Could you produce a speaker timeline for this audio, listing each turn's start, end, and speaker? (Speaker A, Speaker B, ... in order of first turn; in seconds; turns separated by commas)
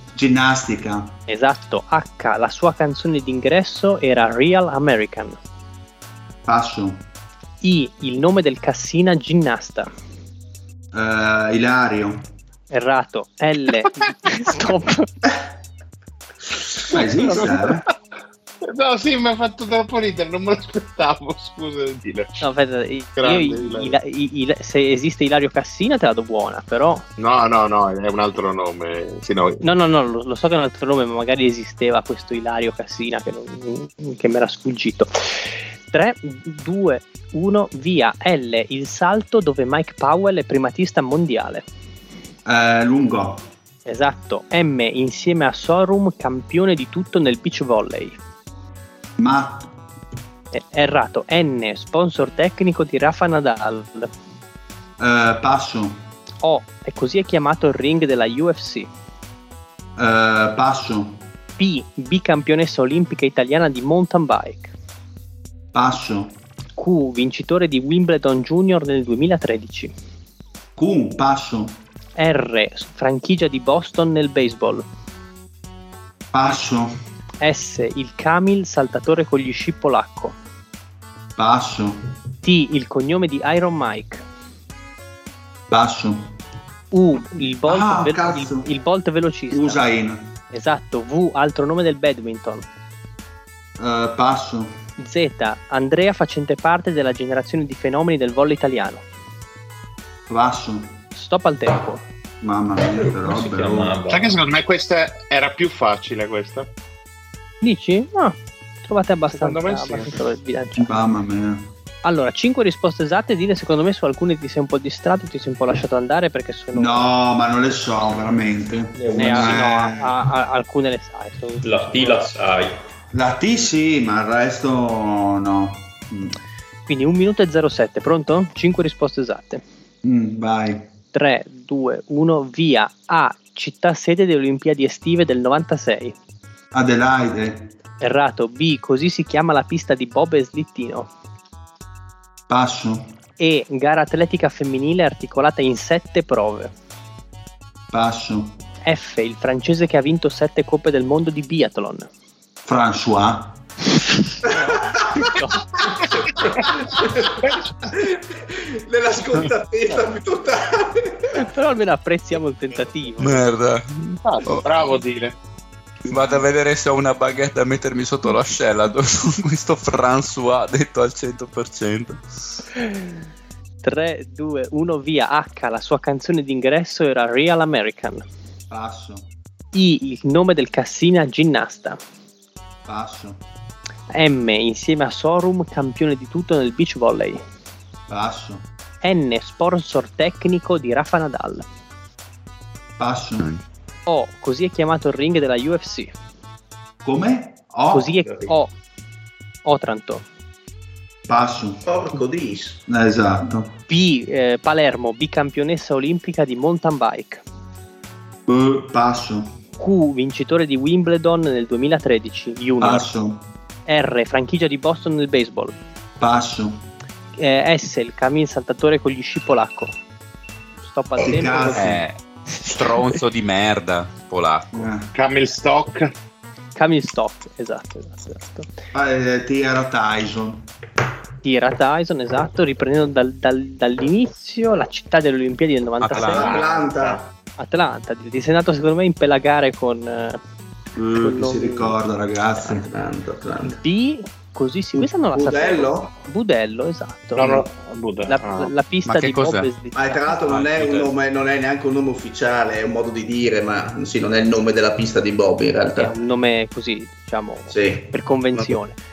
Speaker A: 0.1-1.1, Speaker B: 1.3-5.4, Speaker A: 6.4-7.0, Speaker B: 7.6-9.9, Speaker A: 10.9-12.3, Speaker B: 12.7-15.1, Speaker A: 16.9-17.8, Speaker B: 16.9-17.7, Speaker C: 18.6-22.4, Speaker B: 22.4-27.0, Speaker C: 23.2-23.9, Speaker C: 27.2-29.6, Speaker B: 29.6-41.6, Speaker A: 42.4-43.4, Speaker B: 43.9-48.1, Speaker A: 49.2-49.7, Speaker B: 50.5-54.1, Speaker A: 55.0-56.0, Speaker B: 56.4-58.9, Speaker A: 60.0-61.2, Speaker B: 61.6-64.7, Speaker A: 65.7-66.3, Speaker B: 66.8-69.9, Speaker A: 70.8-71.8, Speaker B: 72.2-74.8, Speaker A: 76.3-76.9, Speaker B: 77.4-80.3, Speaker A: 81.4-82.0, Speaker B: 82.4-84.2, Speaker A: 85.7-86.3, Speaker B: 86.9-89.8, Speaker A: 87.7-88.7, Speaker A: 89.5-90.3, Speaker B: 90.5-92.7, Speaker A: 93.8-94.8, Speaker B: 95.0-99.0, Speaker A: 100.3-101.0, Speaker B: 101.1-102.0, Speaker A: 102.4-104.0, Speaker D: 103.0-104.4, Speaker C: 104.1-106.7, Speaker B: 107.6-110.9, Speaker C: 109.3-110.2, Speaker A: 110.8-111.7, Speaker B: 112.0-117.1, Speaker A: 116.7-120.1, Speaker D: 119.1-119.5, Speaker B: 119.1-122.2, Speaker D: 121.6-122.8, Speaker A: 123.1-126.3, Speaker B: 126.9-129.6, Speaker A: 130.0-130.9, Speaker B: 131.1-136.1, Speaker A: 136.7-137.7, Speaker B: 138.0-141.1, Speaker A: 142.5-143.1, Speaker B: 143.4-146.7, Speaker A: 147.9-148.6, Speaker B: 148.8-152.1, Speaker A: 152.6-153.6, Speaker B: 154.2-155.7, Speaker E: 154.8-155.3, Speaker E: 157.8-161.4, Speaker B: 161.3-163.4, Speaker F: 163.2-165.0, Speaker C: 164.2-165.3, Speaker F: 166.1-172.2, Speaker B: 173.8-178.2, Speaker A: 178.7-179.3, Speaker B: 179.7-182.0, Speaker A: 182.8-183.4, Speaker B: 184.1-187.4, Speaker A: 188.1-188.6, Speaker B: 189.0-191.6, Speaker A: 193.0-193.5, Speaker B: 194.1-196.1, Speaker A: 197.0-198.2, Speaker B: 197.9-198.7, Speaker B: 199.6-200.2, Speaker A: 201.3-201.8, Speaker E: 201.8-202.8, Speaker A: 202.9-203.8, Speaker B: 203.9-207.4, Speaker A: 208.5-209.5, Speaker B: 209.8-213.1, Speaker A: 212.8-213.4, Speaker B: 213.9-215.7, Speaker A: 216.2-216.8, Speaker B: 217.4-219.9, Speaker B: 220.8-221.9, Speaker A: 221.2-222.0, Speaker F: 221.7-224.9, Speaker B: 222.7-223.0, Speaker A: 224.7-225.1, Speaker C: 225.1-226.1, Speaker B: 226.8-228.7, Speaker A: 228.9-230.7, Speaker B: 231.4-236.6, Speaker F: 236.0-236.5, Speaker E: 236.3-237.2, Speaker C: 236.3-237.2, Speaker B: 237.6-240.4, Speaker A: 240.9-242.9, Speaker B: 241.2-241.9, Speaker E: 242.6-243.8, Speaker B: 243.7-247.7, Speaker E: 244.9-246.1, Speaker C: 247.3-248.7, Speaker B: 248.3-250.3, Speaker F: 249.0-249.7, Speaker E: 249.9-256.1, Speaker F: 250.4-251.1, Speaker B: 256.0-259.0, Speaker E: 257.7-258.8